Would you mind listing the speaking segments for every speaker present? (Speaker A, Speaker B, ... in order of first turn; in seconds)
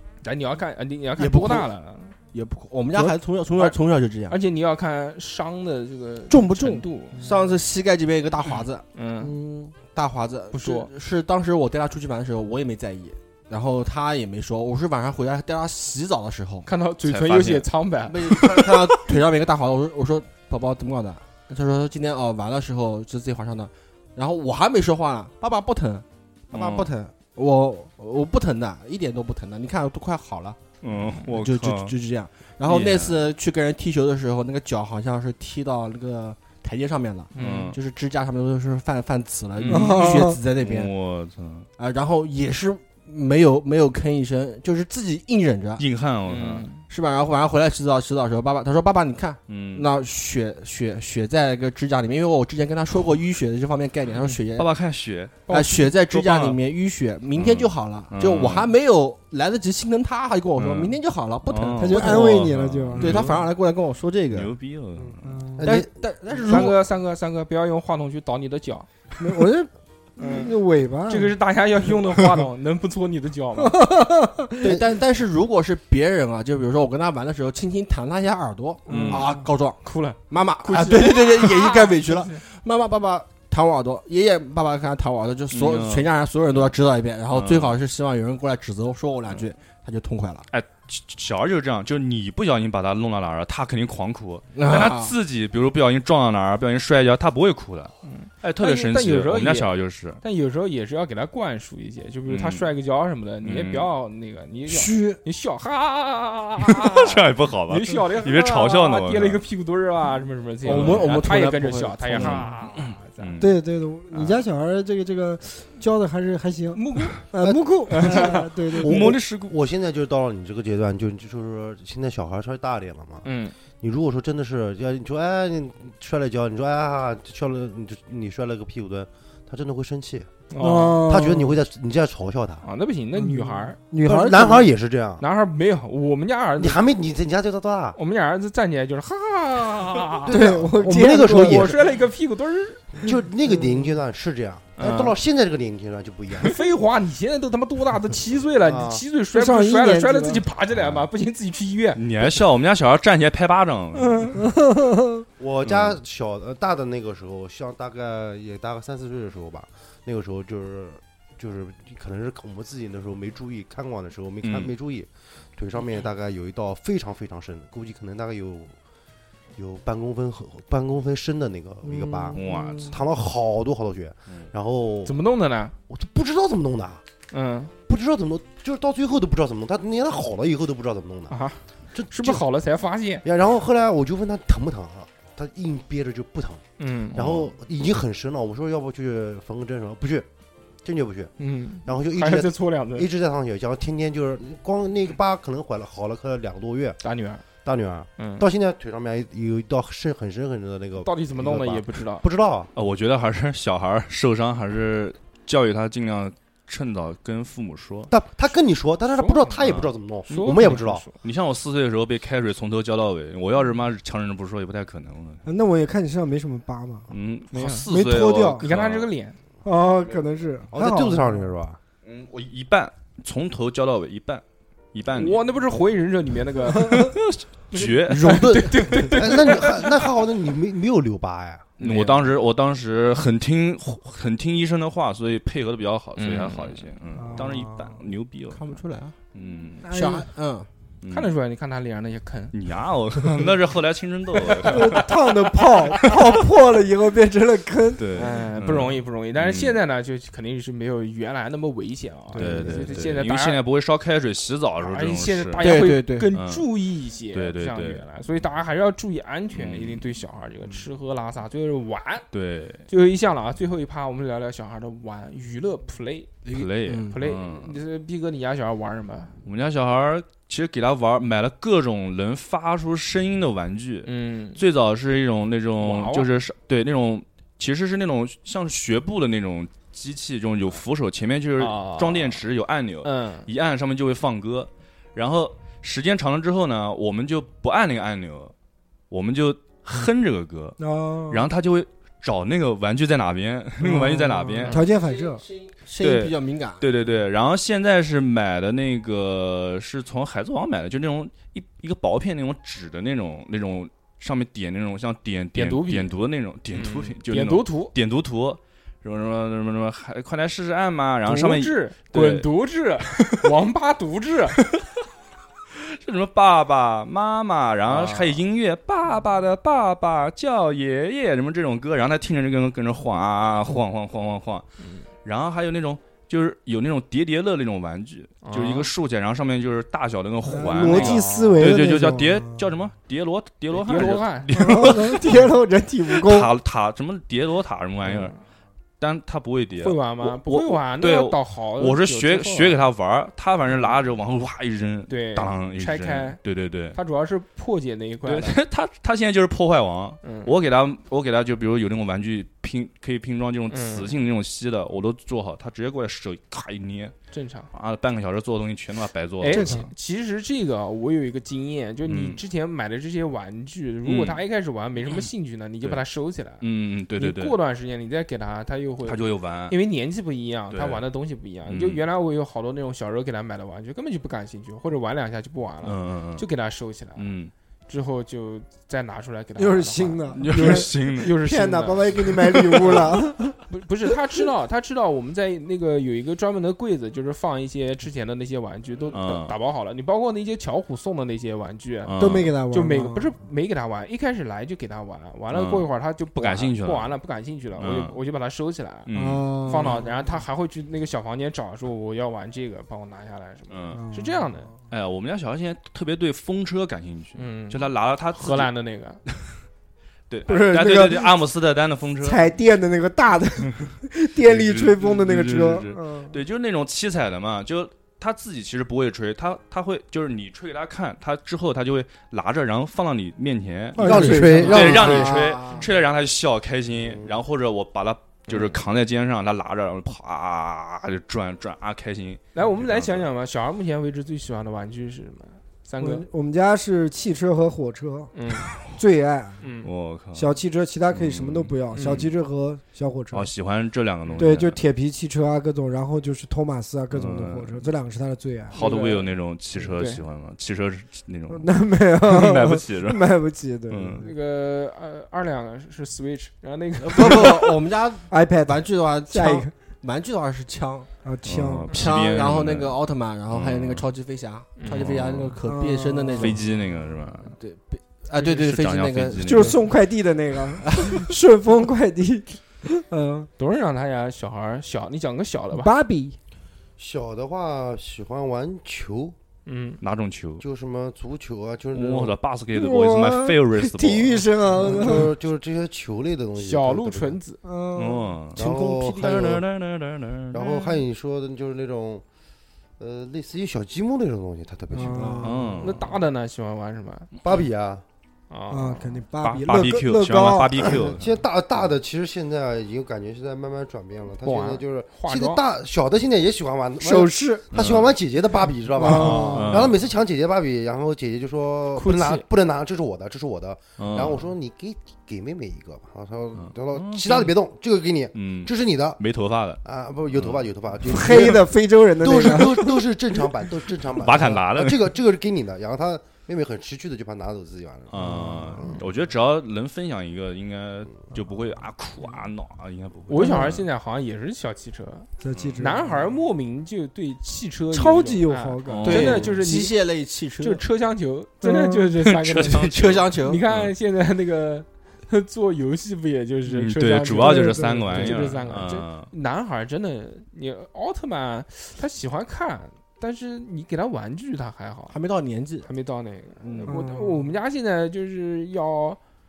Speaker A: 0.2-2.2, 3.0-3.8, 4.3-7.2, 8.9-9.3, 10.5-10.9, 16.6-18.6, 37.4-37.8, 39.7-40.0, 46.3-46.8, 55.5-55.9, 66.3-68.9, 70.2-70.5, 71.1-73.8, 79.8-82.4, 98.0-113.4, 116.7-117.3, 117.9-118.4, 123.2-123.6, 130.5-131.1, 132.6-133.8, 135.2-136.8, 137.9-140.3, 141.3-142.9, 144.8-145.2, 146.4-152.1, 175.1-175.8, 177.3-177.7, 181.3-183.2, 186.8-187.2, 191.4-193.1, 197.0-197.4, 198.2-198.5, 201.0-202.2, 209.2-209.6, 210.3-211.2, 217.5-217.9, 218.6-219.4, 225.1-227.2, 227.7-230.0, 231.8-232.3, 236.2-236.9, 241.1-242.5, 244.6-245.0, 248.3-253.6, 254.8-262.3, 262.9-269.4, 274.1-274.6, 275.8-276.3, 281.6-282.4, 283.0-283.5, 294.6-294.9, 305.6-306.1, 306.7-307.9, 311.3-314.6, 317.9-318.4, 324.8-325.1, 328.4-328.9, 330.8-331.7, 333.7-334.5, 338.1-338.4, 339.8-342.8, 345.1-346.4, 346.9-348.6, 350.2-350.5, 353.7-354.1, 357.3-357.7, 359.4-377.3, 377.9-399.1, 399.7-404.7, 407.4-407.8, 408.3-409.2, 428.5-428.8, 432.5-436.2, 438.3-438.7, 439.6-439.9, 441.9-442.2, 444.2-444.6, 448.7-450.2, 454.2-457.8, 464.8-465.1, 473.6-475.9, 479.7-480.0, 486.6-487.6, 495.8-497.3, 498.5-499.2, 504.4-505.6, 509.1-509.5, 511.9-512.5, 533.3-540.0, 540.6-555.2, 555.8-559.2
Speaker B: 1.2-1.7, 2.3-4.4, 7.2-16.7, 18.1-30.6, 31.3-40.9, 41.8-45.8, 46.9-54.7, 55.5-64.5, 65.6-66.8, 74.6-90.5, 94.5-95.1, 110.6-112.5, 227.8-229.1, 238.5-239.2, 239.9-240.7, 248.2-248.8, 252.3-253.0, 255.6-256.4, 266.5-267.2, 294.8-296.8, 424.3-425.9, 457.0-461.1, 461.9-466.7, 467.5-469.8, 470.8-471.2, 488.6-489.5, 495.1-495.6, 539.0-540.8, 542.8-543.6, 548.2-548.5, 555.1-555.9, 556.6-557.0
Speaker C: 6.3-7.5, 39.7-40.4, 61.8-63.4, 65.0-65.8, 69.2-71.4, 73.6-74.8, 78.9-79.5, 104.7-105.2, 113.4-119.2, 130.6-131.6, 133.2-134.7, 140.3-141.8, 143.1-143.9, 149.3-150.4, 154.3-155.2, 171.8-173.0, 215.4-217.1, 217.9-218.7, 219.6-221.5, 226.7-227.1, 237.2-238.0, 239.8-240.3, 244.6-248.1, 290.8-291.5, 293.8-295.4, 330.5-332.7, 334.5-336.5, 359.5-359.9, 379.6-383.6, 392.2-393.4, 399.1-400.1, 403.9-404.5, 410.5-411.4, 412.2-416.4, 423.9-425.3, 436.0-438.3, 438.9-439.6, 440.3-443.5, 444.4-448.8, 451.5-454.3, 458.3-459.7, 461.2-461.9, 465.7-466.6, 469.4-473.5, 475.7-476.4, 482.7-485.3, 487.6-488.4, 494.9-495.9, 498.7-501.0, 507.0-507.7, 509.0-509.9, 521.1-523.0, 528.5-528.8, 533.4-533.8, 535.4-536.3, 537.9-539.5, 541.6-542.1, 547.4-548.3, 556.9-557.5
Speaker D: 17.1-17.7, 18.2-18.6, 26.5-26.9, 30.8-31.9, 32.6-33.2, 37.4-37.8, 39.6-40.0, 40.6-41.7, 45.8-46.7, 49.5-49.9, 54.5-55.5, 56.1-56.6, 57.4-58.7, 60.6-63.4, 64.3-65.4, 78.9-79.3, 85.5-86.1, 87.3-87.8, 90.5-100.2, 102.3-102.7, 103.4-103.9, 106.9-109.4, 110.7-111.3, 112.2-113.6, 114.1-114.5, 118.8-119.5, 150.7-151.1, 152.0-154.4, 155.7-156.0, 164.4-164.7, 172.3-173.0, 187.2-187.5, 202.7-208.1, 209.6-215.4, 217.1-219.1, 222.0-224.4, 224.9-225.4, 226.8-228.6, 231.8-238.8, 239.3-239.9, 241.0-241.3, 242.5-245.1, 248.0-249.8, 252.3-256.7, 257.3-258.0, 259.5-260.1, 262.3-262.9, 266.5-267.8, 269.4-288.5, 289.1-294.9, 296.0-312.5, 313.1-313.5, 314.6-314.8, 315.7-324.7, 325.2-335.6, 336.1-338.3, 339.0-347.0, 348.3-357.2, 357.7-359.9, 362.1-362.4, 364.1-364.4, 366.6-367.6, 369.1-369.8, 370.7-371.1, 371.7-372.0, 375.8-376.5, 377.2-377.5, 380.4-381.3, 382.8-383.1, 389.1-389.5, 392.0-392.5, 395.5-397.1, 397.8-398.2, 399.1-400.0, 403.7-404.0, 404.9-408.7, 409.3-409.6, 410.3-412.5, 414.4-433.3, 439.8-440.6, 441.1-442.3, 443.3-444.8, 447.1-447.9, 448.7-453.2, 453.9-454.3, 461.4-464.1, 464.9-465.6, 466.4-467.6, 468.4-469.8, 480.0-480.6, 481.9-484.5, 487.9-488.6, 489.2-491.0, 495.4-496.0, 499.4-501.4, 507.7-508.1, 509.5-509.9, 514.0-514.5, 516.6-517.5, 518.4-519.8, 520.3-520.7, 524.2-525.1, 528.1-533.8, 535.5-535.9, 538.9-539.5, 542.2-543.9, 546.7-549.3
Speaker E: 65.6-65.9, 117.4-118.2, 118.8-123.3, 123.8-130.3, 131.0-132.7, 134.0-135.2, 136.6-138.0, 140.2-141.8, 143.0-146.6, 148.6-149.0, 155.4-168.8, 169.6-175.2, 175.9-177.0, 177.9-181.4, 181.9-182.4, 183.2-186.6, 187.2-190.3, 190.8-191.3, 191.8-197.0, 197.7-202.7, 208.1-211.0, 220.7-221.8, 229.0-231.7, 424.0-425.5, 427.0-427.4, 477.0-479.4, 480.6-482.4, 484.7-487.4, 488.6-489.6, 490.5-492.2, 493.0-495.4, 497.4-498.0, 500.8-519.2, 519.8-529.0